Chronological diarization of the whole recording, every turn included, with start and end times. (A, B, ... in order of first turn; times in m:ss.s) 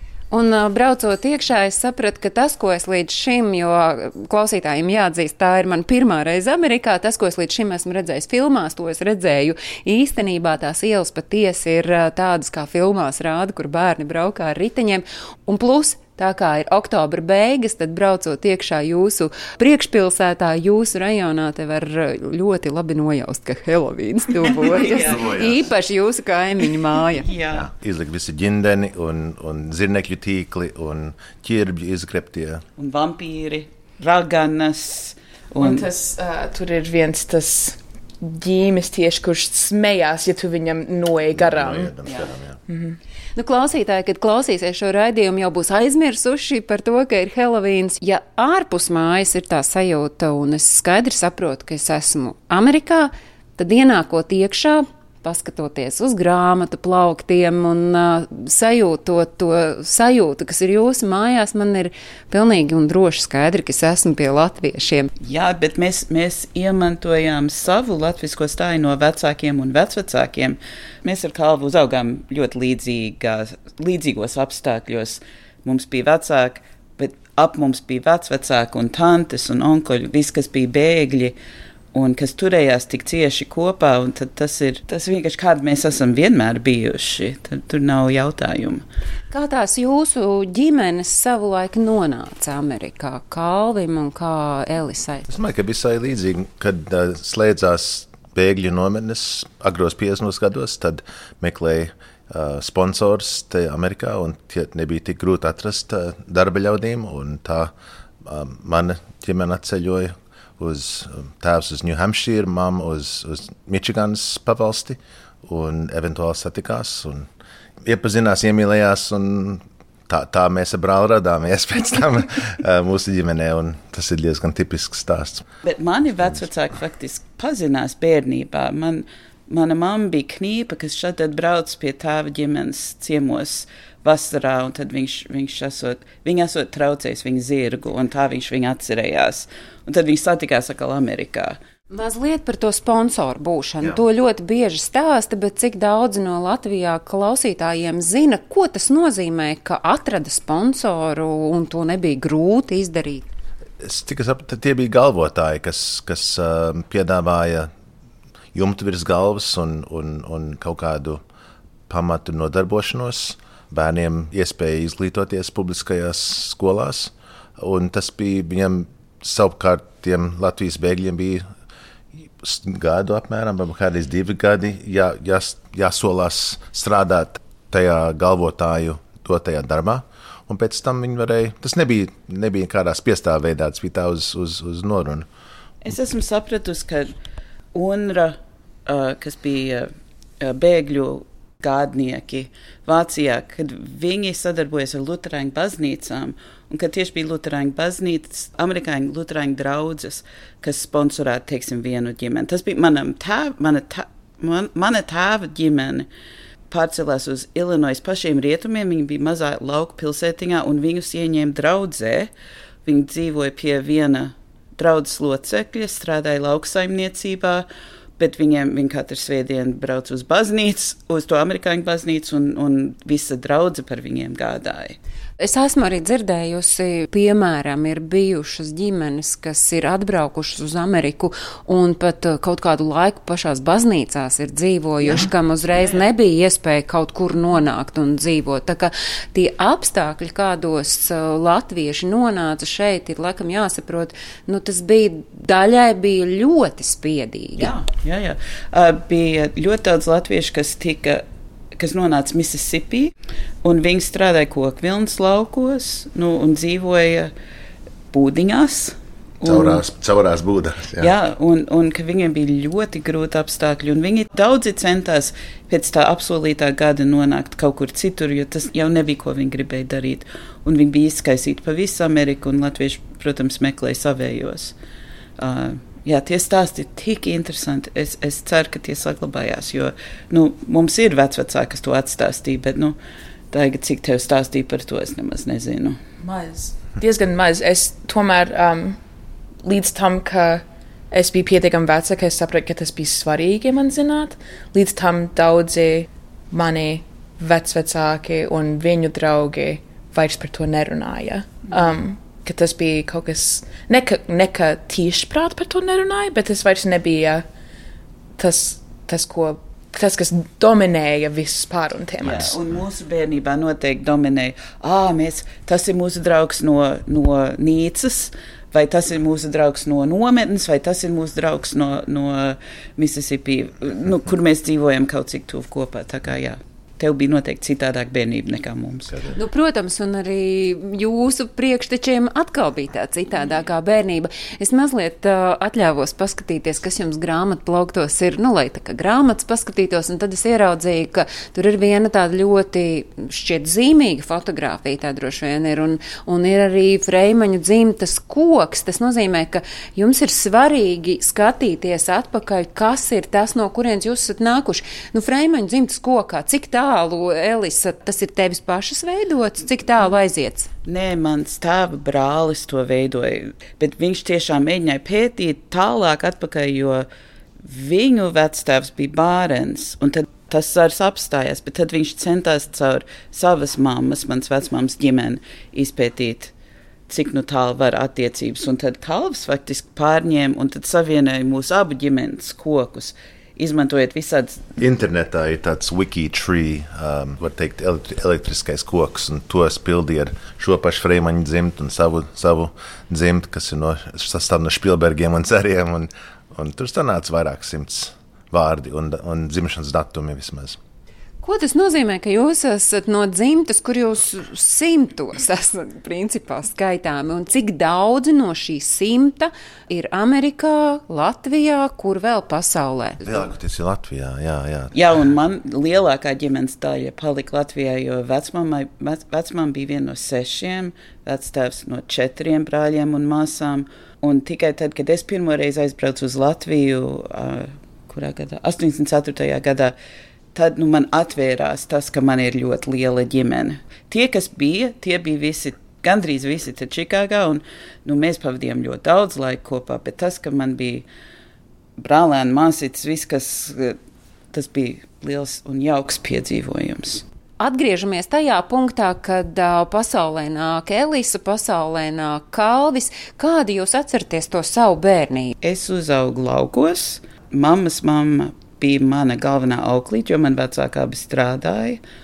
0:00.3-0:27.3 A
0:24.7-0:25.2 B
0:24.9-0:25.7 C
0:27.2-0:27.7 B
0:27.5-0:32.6 C
0:32.8-0:35.9 B
0:35.6-0:41.9 D
0:41.3-0:42.6 C
0:42.7-0:43.0 D
0:43.4-1:05.1 A
1:05.2-1:21.4 B
1:21.9-1:28.8 B
1:29.3-1:35.3 A
1:35.3-1:47.7 C
1:48.2-1:57.3 C
1:57.8-2:05.5 C
2:05.6-2:21.6 B
2:21.9-2:33.3 A
2:33.8-2:37.7 C
2:38.5-2:41.2 C
2:41.9-2:51.5 C
2:52.4-3:05.3 C
3:05.8-3:07.1 B
3:07.7-3:26.1 B
3:26.7-3:32.3 B
3:32.8-3:37.7 B
3:38.2-3:45.0 B
3:45.4-4:07.7 A
4:07.6-4:11.2 B
4:11.8-4:13.1 B
4:13.6-4:17.3 B
4:18.1-4:19.8 B
4:19.4-4:21.1 C
4:21.0-4:34.8 B
4:35.4-4:43.0 B
4:43.5-4:46.0 B
4:46.2-4:49.0 D
4:49.6-5:07.4 D
5:08.4-5:12.6 D
5:12.2-5:29.2 B
5:29.4-6:00.7 A
6:00.8-6:07.1 B
6:07.6-6:16.5 B
6:17.1-6:24.7 B
6:24.8-6:40.8 C
6:41.4-6:53.3 A
6:53.2-6:54.9 C
6:54.9-7:10.0 B
7:10.5-7:21.1 B
7:22.0-7:24.0 B
7:24.5-7:27.2 B
7:27.6-7:35.5 A
7:35.6-7:42.0 B